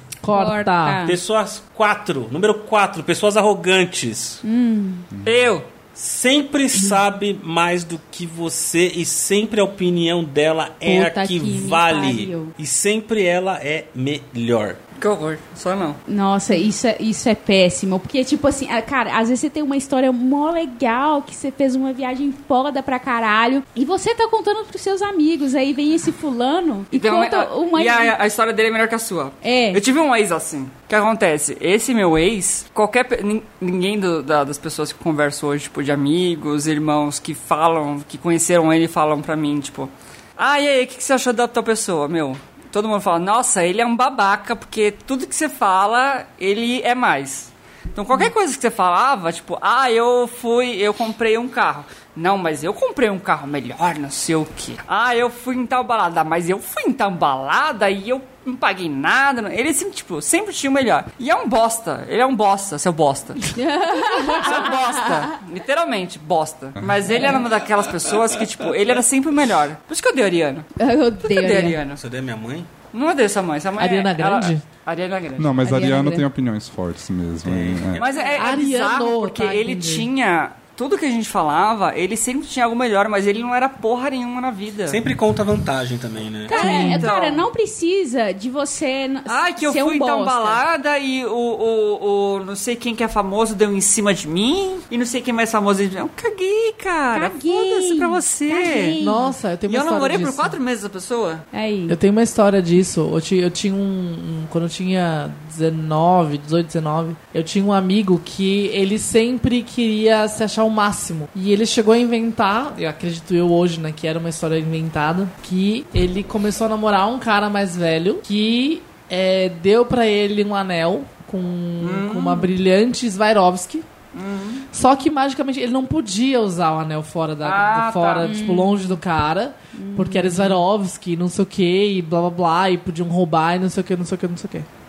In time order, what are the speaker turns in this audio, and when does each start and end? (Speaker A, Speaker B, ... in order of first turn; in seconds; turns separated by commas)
Speaker A: 0.2-1.0, Speaker B: 0.3-1.2, Speaker C: 1.0-4.4, Speaker B: 4.4-5.1, Speaker D: 5.1-5.4, Speaker E: 5.2-5.7, Speaker C: 5.9-14.8, Speaker B: 10.8-12.5, Speaker E: 15.0-16.0, Speaker B: 16.1-28.1, Speaker E: 26.9-63.6, Speaker B: 29.4-29.8, Speaker B: 63.5-65.3, Speaker E: 64.2-70.7, Speaker D: 66.8-67.1, Speaker B: 70.8-71.8, Speaker E: 71.2-72.0, Speaker C: 72.0-72.7, Speaker E: 72.9-75.6, Speaker A: 73.8-74.6, Speaker D: 75.4-78.0, Speaker B: 75.6-76.2, Speaker C: 77.4-78.5, Speaker E: 78.0-85.0, Speaker A: 78.3-80.1, Speaker C: 84.9-86.6, Speaker B: 86.5-90.6, Speaker E: 86.5-87.5, Speaker A: 86.5-87.0, Speaker E: 89.2-99.0, Speaker B: 97.1-99.3, Speaker A: 99.0-100.6, Speaker E: 99.7-101.5, Speaker B: 101.5-102.0, Speaker A: 101.9-123.8, Speaker E: 121.8-122.5, Speaker E: 124.1-124.6, Speaker A: 124.7-134.7, Speaker E: 127.4-128.3, Speaker B: 128.2-128.8, Speaker B: 129.7-130.6